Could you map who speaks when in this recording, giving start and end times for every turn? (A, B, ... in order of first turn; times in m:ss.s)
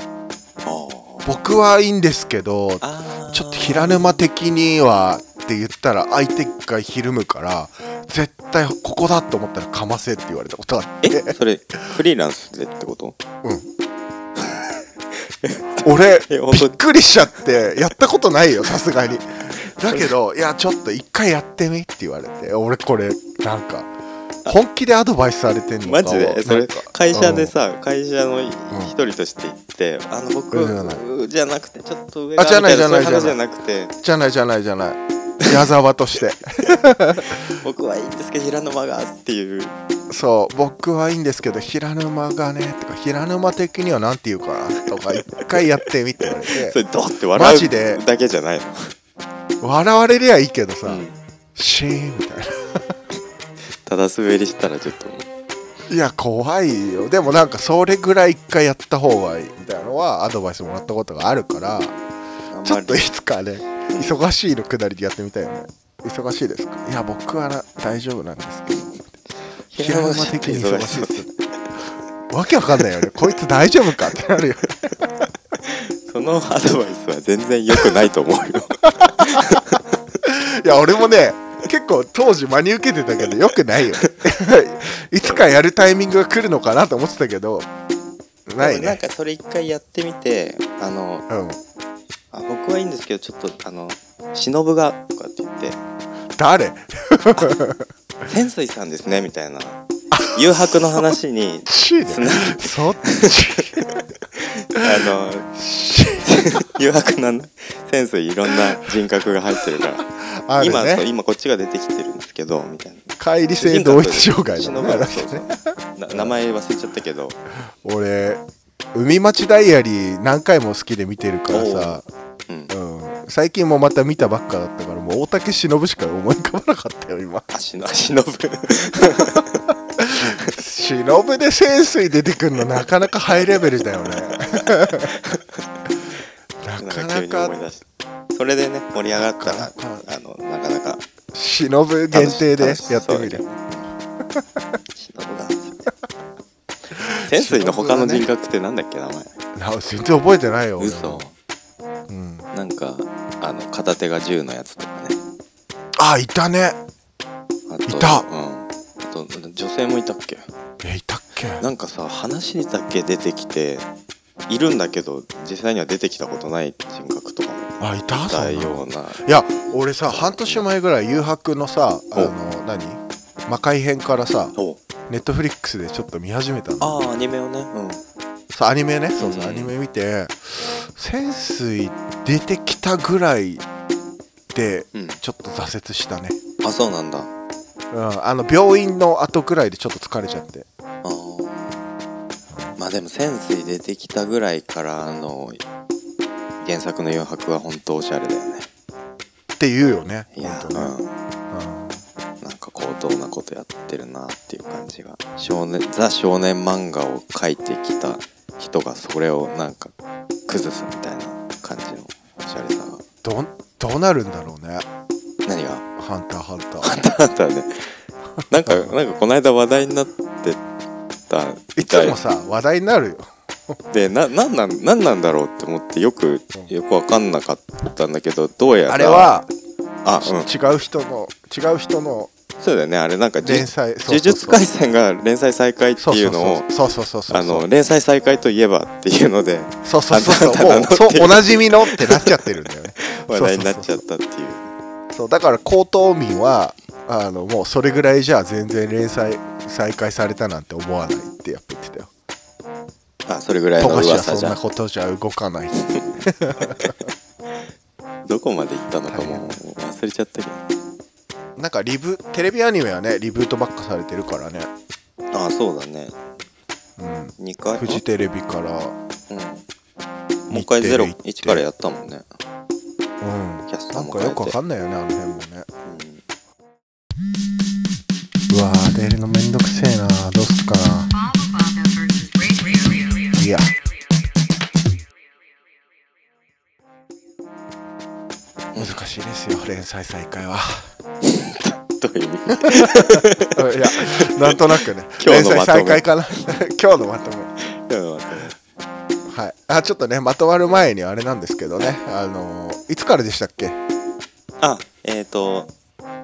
0:00.6-0:01.3 A
0:01.2-0:11.4 B
0:02.8-0:04.2 A
0:11.0-0:13.2 A
0:14.4-0:16.8 A
0:15.8-0:23.9 B
0:19.6-0:20.1 A
0:24.5-0:27.5 B
0:25.8-0:33.9 A
0:30.5-0:31.0 B
0:32.4-0:33.4 B
0:34.0-0:37.4 B
0:37.3-0:39.7 A
0:40.1-0:46.8 B
0:46.2-0:48.9 A
0:47.3-0:48.0 B
0:49.6-0:52.9 B
0:50.8-0:51.2 A
0:53.8-0:55.3 A
0:55.9-1:01.9 B
1:02.5-1:03.1 A
1:02.6-1:09.0 B
1:03.9-1:04.2 A
1:09.7-1:11.2 A
1:09.8-1:11.3 B
1:12.3-1:15.1 B
1:15.6-1:19.8 A
1:19.0-1:27.7 B
1:25.2-1:25.5 A
1:28.5-1:29.0 B
1:28.6-1:31.3 A
1:31.3-1:31.6 B
1:32.3-1:35.8 A
1:36.4-1:37.8 B
1:38.2-1:39.8 A
1:40.1-1:41.0 B
1:40.3-1:45.5 A
1:41.7-1:44.0 B
1:45.5-1:46.3 B
1:46.2-1:57.4 A
1:49.7-1:51.0 B
1:53.2-1:56.4 B
1:57.8-1:58.4 B
1:58.9-2:02.0 B
2:01.5-2:02.7 A
2:02.7-2:07.4 B
2:07.5-2:09.7 A
2:10.0-2:15.1 B
2:10.2-2:10.5 A
2:14.3-2:15.6 A
2:16.6-2:17.6 B
2:16.8-2:21.0 A
2:19.2-2:20.0 B
2:21.3-2:23.4 B
2:22.1-2:23.9 A
2:25.0-2:25.9 A
2:26.9-2:28.3 B
2:27.2-2:29.3 A
2:29.5-2:31.2 B
2:30.8-2:31.3 A
2:32.1-2:32.4 B
2:32.5-2:35.2 A
2:36.0-2:36.8 B
2:37.7-2:40.4 A
2:37.9-2:38.2 B
2:40.8-2:41.6 B
2:41.6-2:43.9 A
2:44.5-2:49.2 A
2:47.8-2:54.5 B
2:50.0-2:50.6 A
2:55.1-2:57.1 B
2:56.8-2:58.0 A
2:58.5-3:03.6 B
2:59.2-2:59.7 A
3:04.5-3:06.4 B
3:04.9-3:05.2 A
3:06.6-3:07.3 A
3:07.9-3:10.6 B
3:11.0-3:11.8 A
3:12.8-3:15.6 A
3:16.6-3:18.7 A
3:19.6-3:20.9 B
3:20.3-3:21.1 A
3:21.5-3:22.0 B
3:22.4-3:29.9 A
3:30.5-3:33.0 A
3:33.2-3:34.8 B
3:35.4-3:35.8 A
3:36.0-3:36.9 B
3:36.8-3:40.6 A
3:38.6-3:38.9 B
3:41.3-3:42.2 A
3:41.8-3:43.8 B
3:43.9-3:49.3 A
3:48.9-3:49.5 B
3:50.0-3:50.5 A
3:50.2-3:52.3 B
3:52.6-3:56.6 A
3:53.4-3:54.6 B
3:56.0-3:57.6 B
3:57.3-4:02.4 A
3:59.8-4:04.0 B
4:03.0-4:04.7 A
4:05.1-4:12.1 B
4:13.3-4:14.6 A
4:13.8-4:17.1 B
4:15.8-4:16.7 A
4:18.2-4:20.6 A
4:19.1-4:19.6 B
4:21.6-4:24.7 B
4:25.3-4:26.2 A
4:27.0-4:28.9 B
4:27.4-4:28.0 A
4:29.3-4:29.6 A
4:30.5-4:32.2 A
4:30.5-4:31.6 B
4:33.2-4:35.7 B
4:33.7-4:34.6 A
4:35.8-4:36.2 A
4:38.5-4:41.1 B
4:41.1-4:43.4 C
4:43.3-4:43.7 B
4:48.7-4:49.0 A
4:48.8-4:50.9 B
4:51.2-4:56.5 A
4:52.7-4:57.5 B
4:57.6-4:58.6 A
4:59.3-5:03.8 B
5:04.6-5:05.7 A